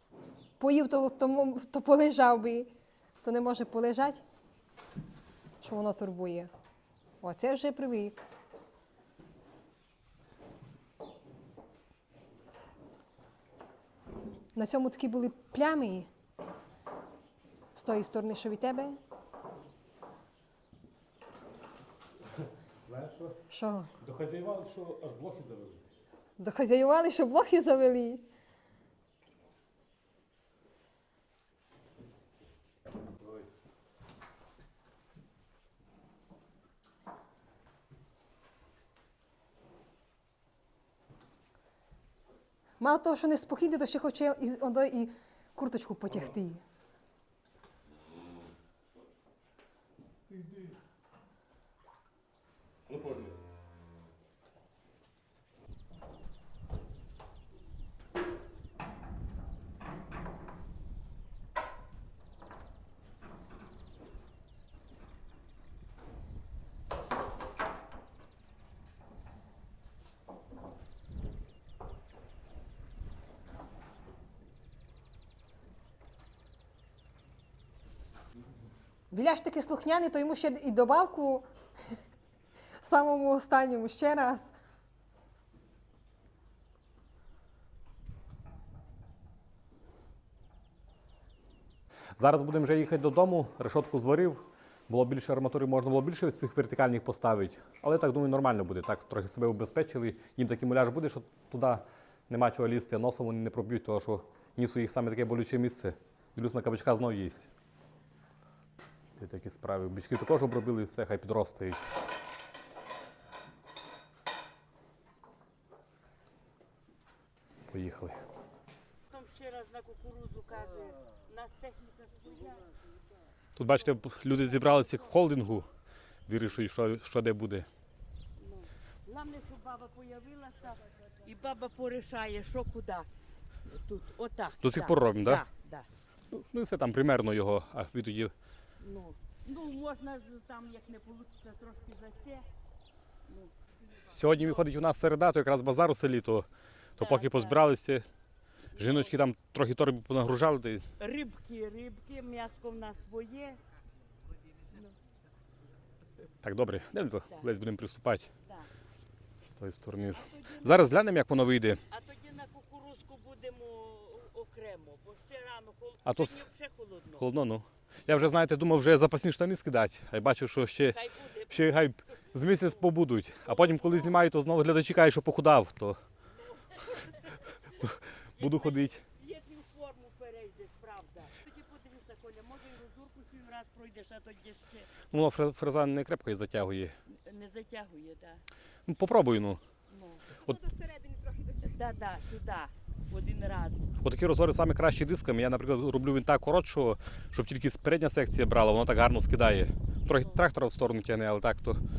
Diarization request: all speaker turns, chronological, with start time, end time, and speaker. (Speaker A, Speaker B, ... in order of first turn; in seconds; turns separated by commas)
Speaker A: 0.6-4.2, Speaker A: 5.6-6.5, Speaker A: 7.2-8.2, Speaker A: 14.6-16.1, Speaker A: 17.7-19.0, Speaker B: 22.9-23.4, Speaker A: 23.5-23.9, Speaker B: 24.0-25.9, Speaker A: 26.4-28.3, Speaker B: 33.2-33.5, Speaker A: 42.8-46.6, Speaker B: 50.3-50.8, Speaker B: 52.9-53.4, Speaker A: 79.1-81.5, Speaker A: 82.8-84.5, Speaker B: 92.2-107.5, Speaker B: 109.2-111.8, Speaker B: 117.7-118.2, Speaker C: 119.1-122.7, Speaker B: 123.6-125.7, Speaker B: 126.3-127.7, Speaker C: 128.4-133.1, Speaker C: 133.7-135.9, Speaker B: 134.6-135.4, Speaker B: 136.3-138.3, Speaker C: 138.8-142.5, Speaker B: 143.9-148.1, Speaker C: 147.0-147.6, Speaker C: 148.7-149.1, Speaker B: 148.8-150.8, Speaker C: 151.0-153.6, Speaker B: 156.4-158.3, Speaker B: 159.4-161.8, Speaker C: 160.0-160.9, Speaker C: 161.9-167.2, Speaker B: 166.1-166.4, Speaker B: 167.2-171.0, Speaker C: 170.9-172.8, Speaker B: 171.5-176.0, Speaker C: 173.5-174.2, Speaker C: 176.7-177.4, Speaker B: 177.8-179.0, Speaker C: 178.4-184.9, Speaker B: 185.1-186.9, Speaker C: 187.1-188.4, Speaker B: 188.9-189.6, Speaker C: 189.9-190.2, Speaker A: 190.4-191.8, Speaker C: 191.7-193.8, Speaker B: 194.0-201.8, Speaker C: 200.1-200.4